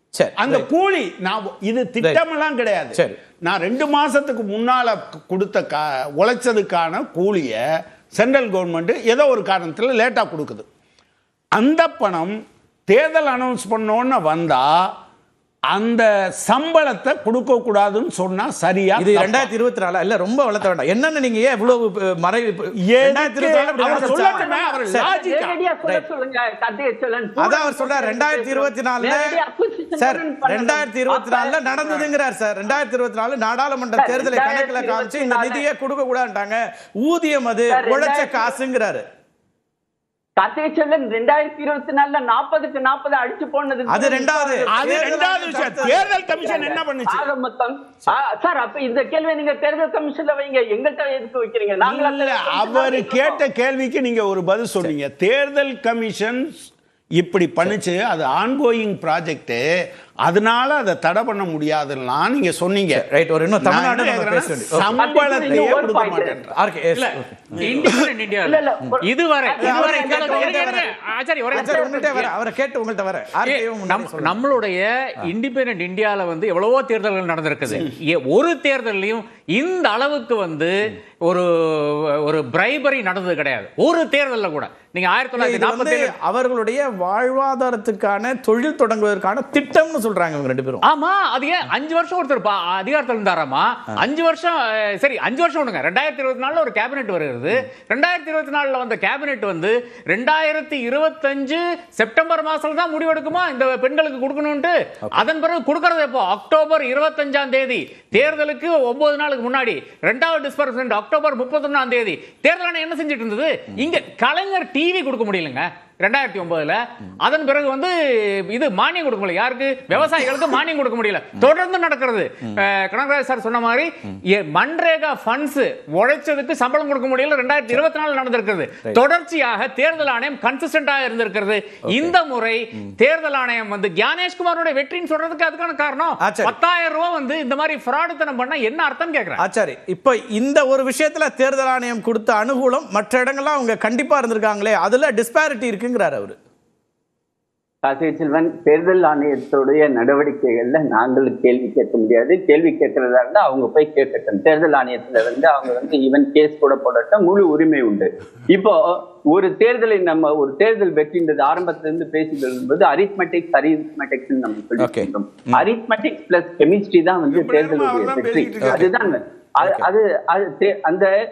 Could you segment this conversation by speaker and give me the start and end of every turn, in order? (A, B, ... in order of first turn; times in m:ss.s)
0:00.1-0:00.7 A
0:00.4-0:07.6 B
0:08.1-0:10.6 B
0:11.6-0:12.4 B
0:12.9-0:14.8 B
0:15.7-0:19.5 B
0:19.0-0:25.1 A
0:22.8-0:25.6 B
0:23.8-0:32.1 C
0:27.4-0:29.3 A
0:30.0-0:39.0 A
0:34.0-0:35.6 C
0:37.7-0:38.6 C
0:40.4-0:53.4 C
0:43.9-0:46.1 A
0:44.7-0:47.3 B
0:51.8-0:59.6 B
1:00.2-1:03.0 B
1:02.9-1:05.0 A
1:03.6-1:06.5 B
1:05.0-1:06.4 C
1:06.5-1:07.6 A
1:07.0-1:12.3 D
1:07.6-1:08.0 B
1:08.4-1:10.6 C
1:09.6-1:10.9 A
1:11.5-1:14.4 A
1:11.5-1:12.2 C
1:13.4-1:26.1 D
1:25.4-1:30.8 A
1:30.8-2:19.4 D
2:11.9-2:12.1 A
2:16.2-2:16.5 A
2:19.4-2:26.4 A
2:27.8-2:51.1 C
2:44.8-2:45.6 A
2:47.3-2:49.2 B
2:48.6-2:48.9 A
2:49.6-2:49.9 A